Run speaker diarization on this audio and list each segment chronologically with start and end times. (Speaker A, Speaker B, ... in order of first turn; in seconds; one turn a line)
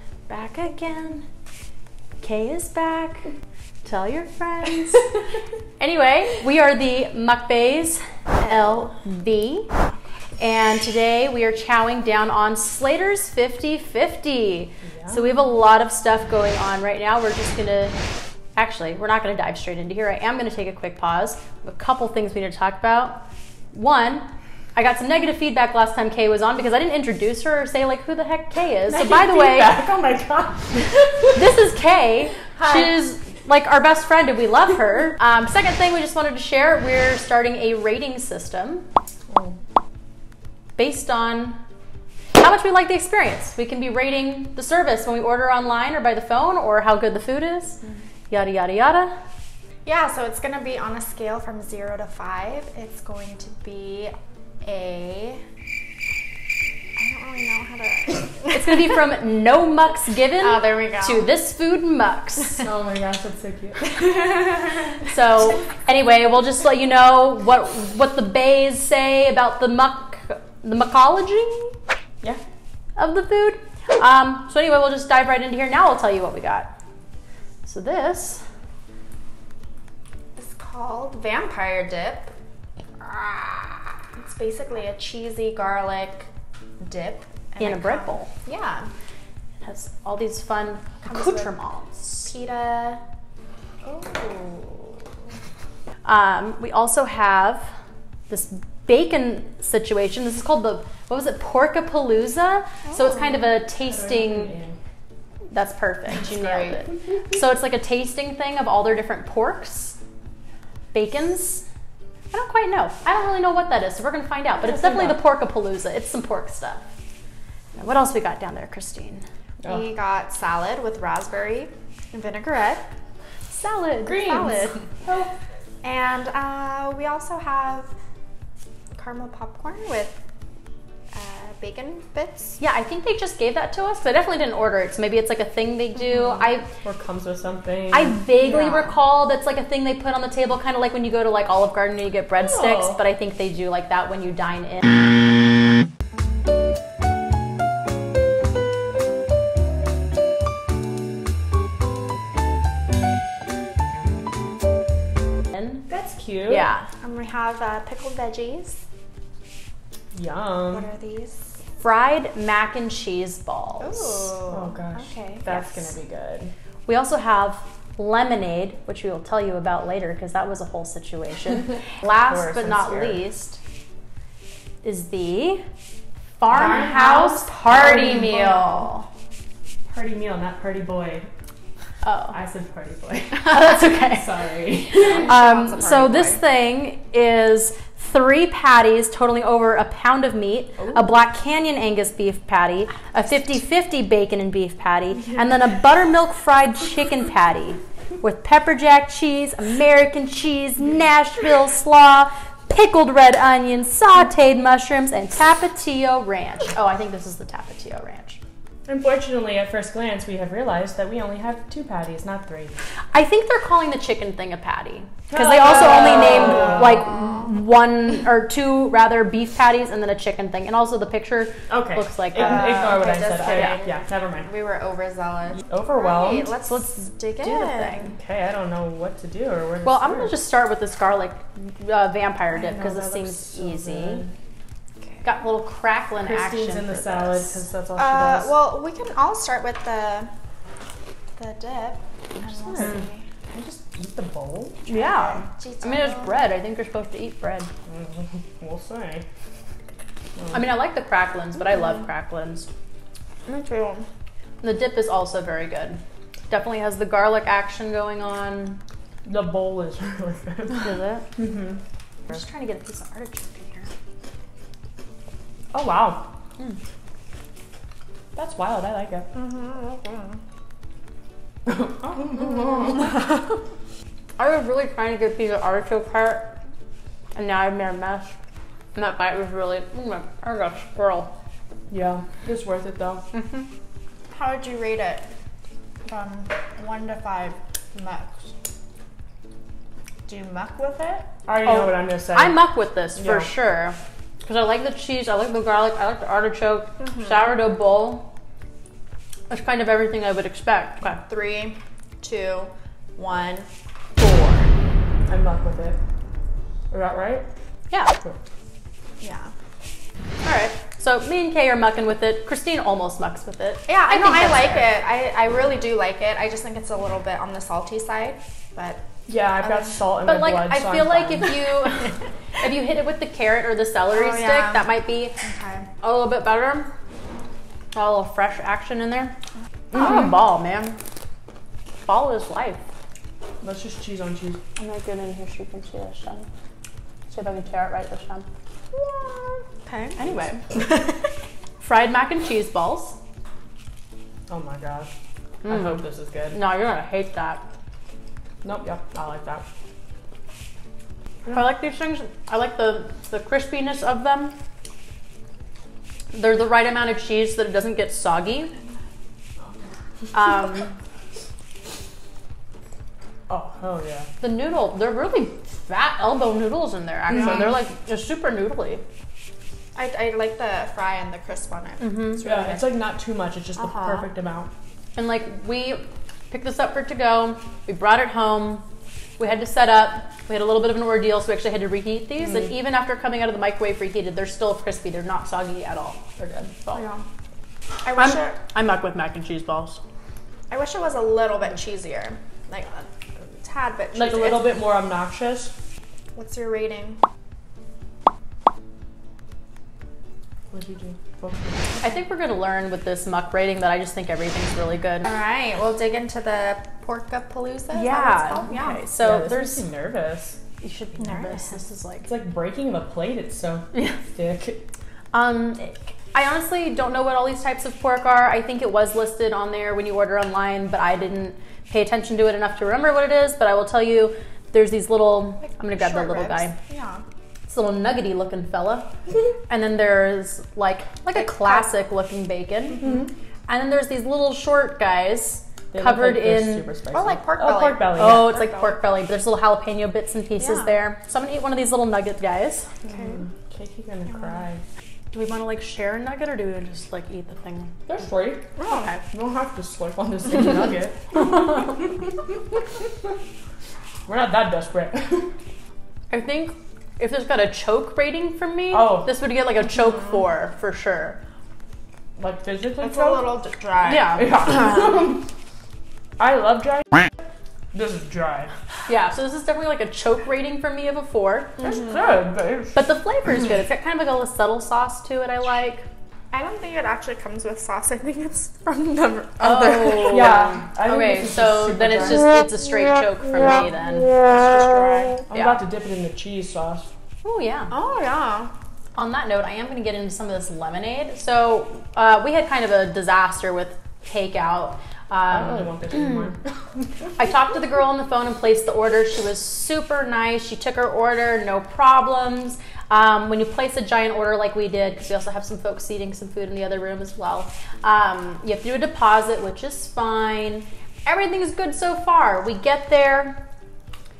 Speaker A: 0.3-1.2
Speaker A: 2.2-3.3
Speaker A: 3.8-5.2
Speaker A: 5.8-9.7
Speaker A: 10.4-18.0
Speaker A: 18.6-29.8
Speaker B: 28.9-31.4
Speaker A: 31.4-38.9
Speaker B: 32.6-32.9
Speaker B: 39.3-39.6
Speaker A: 40.8-41.6
Speaker A: 42.4-49.1
Speaker C: 49.9-55.4
Speaker C: 57.0-58.6
Speaker A: 58.5-62.7
Speaker C: 60.4-61.3
Speaker B: 62.6-64.3
Speaker A: 65.0-71.8
Speaker A: 73.0-76.7
Speaker A: 77.6-78.4
Speaker C: 80.4-82.3
Speaker C: 83.0-86.3
Speaker C: 86.8-88.9
Speaker A: 87.6-88.3
Speaker A: 89.6-92.3
Speaker C: 91.0-91.5
Speaker C: 92.2-93.0
Speaker C: 94.0-94.7
Speaker A: 96.0-97.8
Speaker A: 98.3-104.5
Speaker B: 103.9-104.8
Speaker A: 105.5-110.0
Speaker C: 106.3-106.8
Speaker A: 110.9-111.7
Speaker A: 112.3-116.8
Speaker B: 114.6-115.2
Speaker A: 117.8-119.2
Speaker C: 119.6-122.8
Speaker A: 123.5-124.8
Speaker B: 124.0-125.3
Speaker C: 124.2-124.7
Speaker C: 125.8-127.9
Speaker C: 128.9-130.2
Speaker C: 131.1-132.6
Speaker A: 132.6-136.7
Speaker B: 136.8-138.2
Speaker A: 137.9-145.0
Speaker C: 138.4-138.9
Speaker B: 142.4-143.0
Speaker A: 155.5-155.9
Speaker B: 155.9-156.7
Speaker A: 156.5-156.9
Speaker C: 157.0-158.8
Speaker B: 160.1-160.9
Speaker C: 160.7-161.5
Speaker A: 161.8-164.4
Speaker C: 163.8-165.5
Speaker B: 164.5-166.5
Speaker A: 165.5-165.9
Speaker A: 166.9-173.6
Speaker B: 172.2-173.2
Speaker A: 174.8-175.6
Speaker A: 176.4-179.1
Speaker B: 176.5-178.7
Speaker C: 176.5-177.9
Speaker B: 179.9-181.3
Speaker A: 182.0-182.4
Speaker B: 182.3-185.3
Speaker A: 183.3-184.3
Speaker A: 184.9-208.4
Speaker C: 184.9-186.4
Speaker B: 190.8-191.1
Speaker B: 208.9-212.7
Speaker A: 213.1-222.9
Speaker B: 215.3-217.1
Speaker B: 221.7-224.5
Speaker C: 222.3-228.1
Speaker B: 225.5-226.5
Speaker A: 226.7-228.2
Speaker B: 228.2-230.3
Speaker A: 229.8-234.2
Speaker B: 232.5-234.3
Speaker A: 235.2-237.6
Speaker B: 236.2-238.6
Speaker C: 238.0-240.3
Speaker C: 241.4-243.2
Speaker B: 242.4-244.8
Speaker C: 244.9-246.4
Speaker A: 244.9-247.7
Speaker B: 247.9-249.2
Speaker B: 250.4-250.6
Speaker A: 250.5-252.7
Speaker C: 253.5-254.1
Speaker A: 254.6-258.8
Speaker B: 259.2-261.8
Speaker A: 260.8-261.3
Speaker A: 262.3-263.9
Speaker B: 265.7-266.3
Speaker B: 268.4-269.3
Speaker C: 269.3-270.4
Speaker B: 271.7-273.1
Speaker A: 274.4-276.6
Speaker A: 277.4-278.4
Speaker A: 278.9-281.3
Speaker B: 281.9-283.2
Speaker A: 283.3-283.6
Speaker C: 284.3-285.2
Speaker C: 286.1-288.5
Speaker C: 290.3-291.3
Speaker B: 291.4-292.6
Speaker A: 291.6-298.3
Speaker B: 293.2-293.5
Speaker C: 297.0-297.3
Speaker A: 299.5-301.2
Speaker C: 301.2-303.7
Speaker A: 304.2-304.7
Speaker B: 305.3-306.0
Speaker B: 306.9-307.4
Speaker A: 307.9-308.1
Speaker C: 309.2-309.5
Speaker A: 310.4-314.9
Speaker C: 313.9-319.0
Speaker B: 319.3-321.6
Speaker A: 320.2-325.4
Speaker C: 324.1-325.9
Speaker A: 326.0-326.9
Speaker A: 327.9-329.4
Speaker B: 329.9-330.3
Speaker A: 329.9-331.0
Speaker A: 332.1-332.8
Speaker B: 333.6-334.6
Speaker A: 334.8-336.5
Speaker A: 337.3-338.5
Speaker C: 338.9-340.2
Speaker A: 340.2-340.6
Speaker A: 341.8-343.2
Speaker B: 344.5-345.1
Speaker A: 345.6-346.0
Speaker B: 345.6-346.6
Speaker A: 346.5-347.6
Speaker B: 348.6-349.6
Speaker A: 351.5-354.6
Speaker A: 356.3-358.7
Speaker A: 360.3-360.9
Speaker B: 363.5-364.3
Speaker A: 364.4-369.0
Speaker B: 367.3-367.8
Speaker C: 369.9-372.9
Speaker A: 372.0-372.4
Speaker B: 372.4-374.7
Speaker C: 373.8-374.2
Speaker A: 375.2-378.9
Speaker A: 379.4-386.2
Speaker B: 386.4-386.7
Speaker C: 386.9-387.2
Speaker C: 388.0-388.6
Speaker A: 388.1-390.0
Speaker C: 390.7-394.7
Speaker B: 394.1-395.7
Speaker C: 396.4-397.2
Speaker B: 400.7-402.0
Speaker A: 402.0-405.3
Speaker C: 405.2-409.1
Speaker A: 407.9-409.8
Speaker B: 409.2-410.6
Speaker A: 410.8-412.3
Speaker C: 411.2-411.8
Speaker B: 412.2-414.9
Speaker A: 413.9-414.2
Speaker A: 415.3-426.8
Speaker C: 425.8-427.2
Speaker A: 427.7-429.1
Speaker A: 429.7-433.1
Speaker C: 431.4-431.8
Speaker B: 433.0-433.3
Speaker A: 433.7-436.9
Speaker B: 435.9-438.6
Speaker C: 437.1-439.0
Speaker A: 438.2-442.9
Speaker C: 440.6-440.9
Speaker C: 443.0-443.4
Speaker B: 443.1-444.8
Speaker A: 445.3-448.0
Speaker B: 448.1-452.8
Speaker C: 448.8-449.1
Speaker A: 448.8-449.2
Speaker B: 454.3-455.5
Speaker A: 456.3-461.4
Speaker B: 458.9-459.3
Speaker B: 462.4-463.4
Speaker C: 463.0-464.4
Speaker A: 464.0-464.5
Speaker B: 464.2-465.5
Speaker B: 466.4-467.1
Speaker B: 467.9-468.7
Speaker A: 469.1-471.8
Speaker C: 471.8-472.2
Speaker B: 471.8-473.0
Speaker A: 472.9-476.1
Speaker C: 476.5-480.5
Speaker A: 479.6-484.3
Speaker B: 480.3-482.4
Speaker C: 484.3-485.5
Speaker B: 485.5-487.1
Speaker A: 485.5-485.8
Speaker A: 487.4-487.9
Speaker C: 487.9-488.7
Speaker A: 489.2-496.4
Speaker B: 495.5-496.6
Speaker A: 497.4-513.6